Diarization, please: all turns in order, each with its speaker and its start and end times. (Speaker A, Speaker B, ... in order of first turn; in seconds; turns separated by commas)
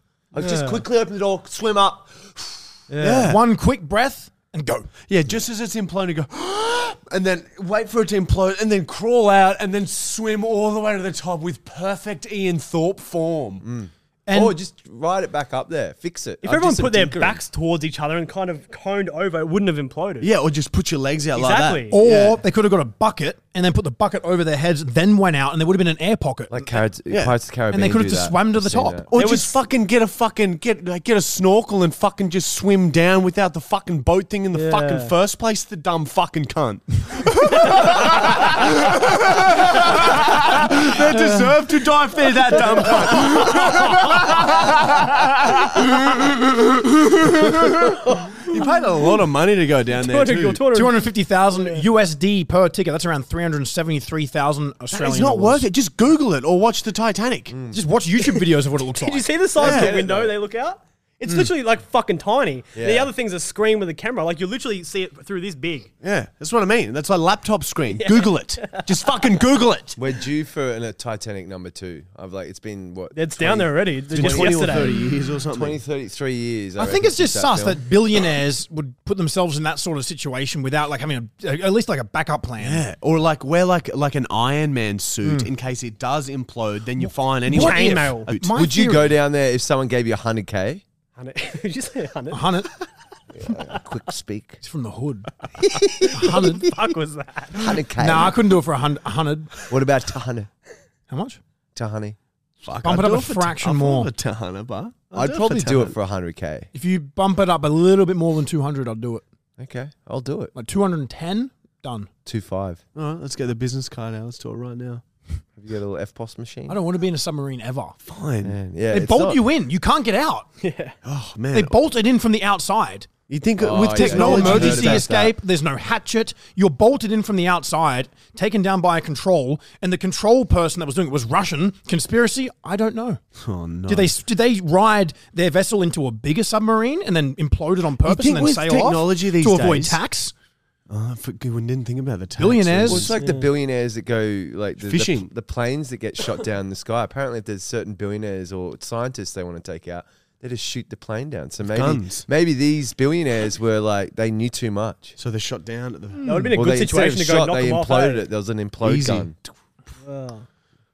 Speaker A: 0.3-2.6, Speaker B: 0.4-0.8, Speaker B: 2.9-3.3, Speaker C: 3.0-3.4, Speaker D: 3.2-4.9, Speaker C: 5.1-13.7, Speaker A: 13.6-16.6, Speaker D: 14.3-14.6, Speaker B: 16.4-20.3, Speaker C: 16.5-17.4, Speaker C: 20.2-22.4, Speaker B: 21.3-22.0, Speaker D: 21.9-26.8, Speaker A: 26.5-29.1, Speaker C: 27.1-27.4, Speaker D: 27.7-29.1, Speaker C: 29.1-50.6, Speaker B: 29.1-29.6, Speaker B: 34.5-35.1, Speaker B: 43.1-43.7, Speaker B: 49.9-51.9, Speaker D: 50.7-55.7, Speaker C: 54.9-57.5, Speaker A: 57.5-57.8, Speaker D: 57.7-59.3, Speaker B: 59.0-65.9, Speaker A: 59.6-60.4, Speaker C: 59.6-60.0, Speaker A: 62.8-63.1, Speaker C: 66.0-70.0, Speaker B: 67.9-69.1, Speaker A: 70.0-73.7, Speaker B: 73.1-75.0, Speaker C: 73.4-75.8, Speaker A: 74.2-74.7, Speaker A: 75.5-77.8, Speaker D: 76.8-82.9, Speaker C: 82.6-88.6, Speaker D: 85.2-85.5, Speaker D: 87.0-89.2, Speaker B: 87.5-88.3, Speaker A: 88.4-90.8, Speaker B: 91.2-92.6, Speaker D: 92.3-92.7, Speaker A: 93.3-94.6, Speaker D: 94.6-95.3, Speaker A: 95.6-96.5, Speaker B: 96.0-97.6, Speaker D: 96.1-96.7, Speaker A: 97.5-98.4, Speaker D: 98.0-99.7, Speaker A: 99.7-100.5, Speaker D: 101.1-101.4, Speaker A: 101.8-102.2, Speaker C: 102.6-106.0, Speaker D: 102.8-104.1, Speaker A: 105.1-106.7, Speaker D: 106.7-109.2, Speaker A: 109.6-110.5, Speaker D: 110.5-112.1, Speaker A: 112.3-112.8, Speaker C: 113.0-115.0, Speaker A: 115.6-116.8, Speaker D: 116.7-118.0, Speaker C: 118.0-118.6, Speaker A: 118.4-119.4, Speaker D: 118.9-120.5, Speaker B: 120.6-121.0, Speaker C: 121.0-121.7, Speaker D: 121.5-123.1, Speaker C: 123.3-125.1, Speaker A: 123.6-125.3, Speaker D: 123.9-133.2, Speaker C: 133.4-134.2, Speaker D: 133.9-140.3, Speaker C: 138.0-140.0, Speaker C: 140.9-143.2, Speaker D: 142.4-143.2, Speaker A: 142.9-155.2, Speaker B: 143.2-143.5, Speaker C: 144.8-145.3, Speaker C: 151.7-152.3, Speaker C: 155.2-156.3, Speaker D: 156.2-156.6, Speaker B: 156.2-158.2, Speaker A: 156.5-159.4, Speaker C: 158.8-159.5, Speaker B: 160.1-160.5